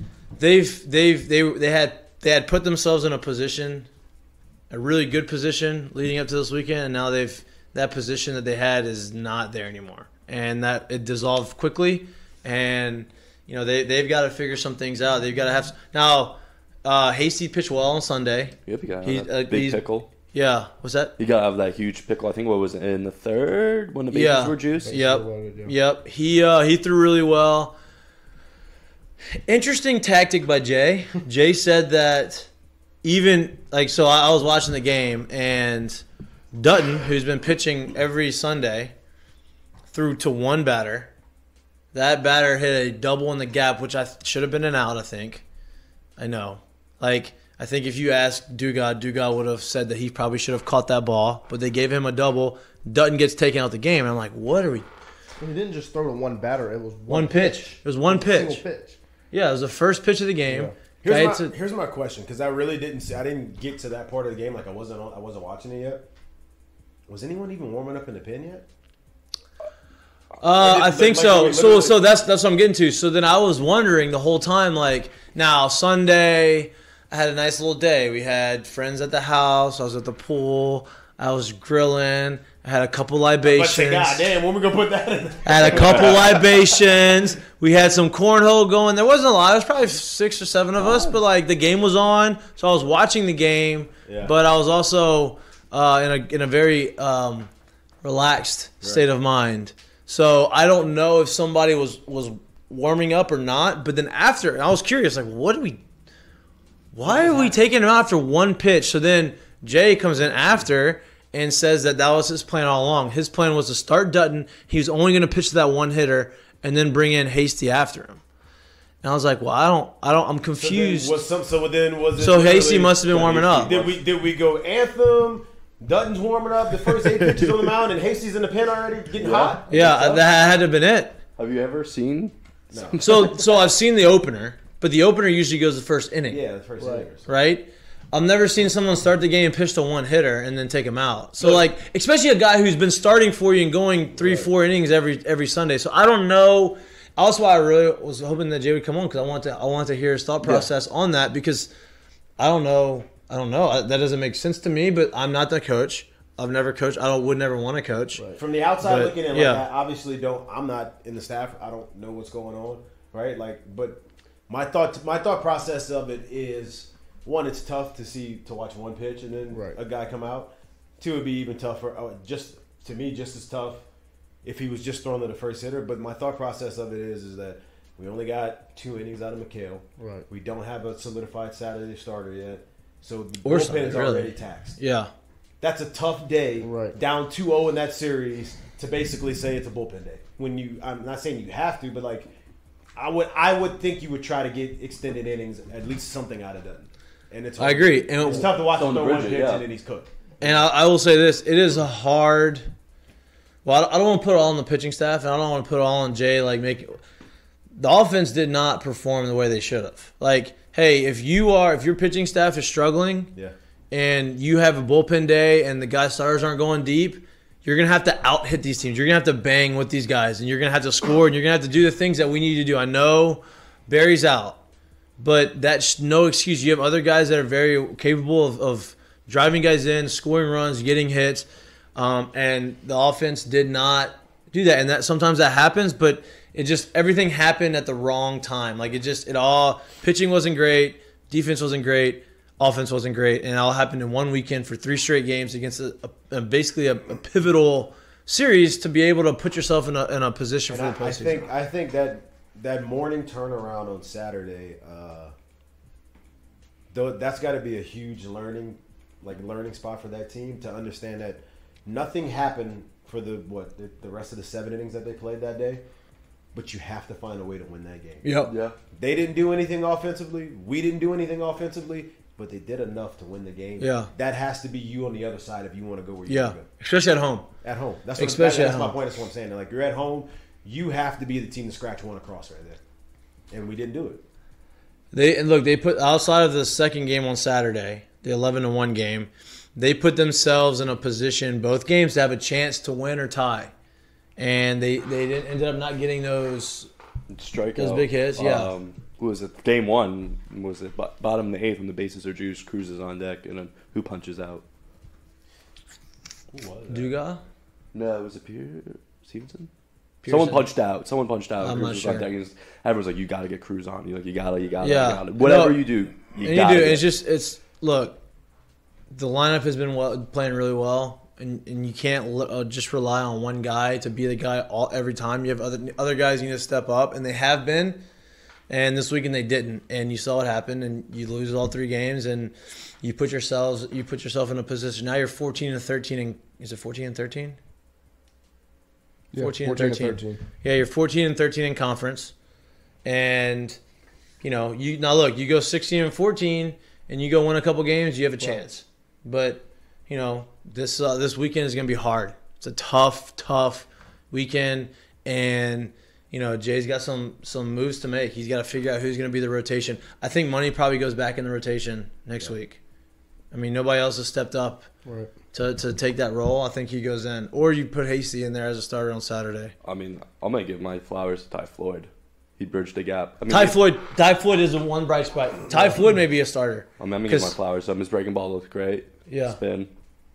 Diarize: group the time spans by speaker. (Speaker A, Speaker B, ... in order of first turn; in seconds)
Speaker A: 0.4-3.9, 4.7-21.1, 24.1-27.8, 29.4-32.5, 33.0-38.9, 39.9-41.1, 41.9-45.4, 46.2-54.9, 57.1-58.6, 59.3-61.5, 70.4-84.2, 85.5-97.5, 98.0-105.8, 106.9-118.2, 119.0-121.2, 122.2-123.8, 129.7-131.2, 133.0-136.4, 137.3-151.7, 152.4-158.2, 158.8-159.7, 183.4-185.1, 197.6-198.5, 200.4-202.7, 203.7-207.0, 207.8-213.3, 213.9-224.6, 225.2-251.5, 268.2-268.5, 273.8-274.1, 276.3-277.5, 278.2-279.0, 285.1-293.7, 294.4-296.9, 297.8-298.7, 306.9-307.4, 310.2-310.7, 311.6-312.3, 314.8-318.2, 319.1-328.0, 328.7-337.6, 339.4-342.3, 343.0-343.8, 344.4-362.8, 363.5-364.9, 365.5-369.7, 373.5-377.6, 379.3-379.6
Speaker B: 18.7-20.1, 21.2-24.9, 123.2-124.0, 129.2-130.3, 131.4-133.4, 198.5-199.7, 268.5-268.8, 297.3-304.6, 307.9-309.7, 310.3-317.1, 369.8-373.8, 377.0-379.9
Speaker C: 24.8-25.8, 55.4-59.0, 60.5-60.8, 136.8-137.1, 169.5-169.8, 180.0-180.3, 186.6-187.0, 339.3-340.4, 365.1-365.3
Speaker D: 61.0-66.1, 67.1-68.7, 70.6-72.1, 83.4-86.9, 94.1-94.3, 107.0-107.6, 120.6-129.7, 132.7-133.3, 136.3-137.3, 141.4-141.7, 158.4-173.8, 174.4-184.8, 185.6-192.3, 193.0-200.6, 250.7-255.3, 256.9-265.8, 266.5-268.2, 268.9-276.7, 277.6-282.8, 283.5-284.2, 306.5-307.1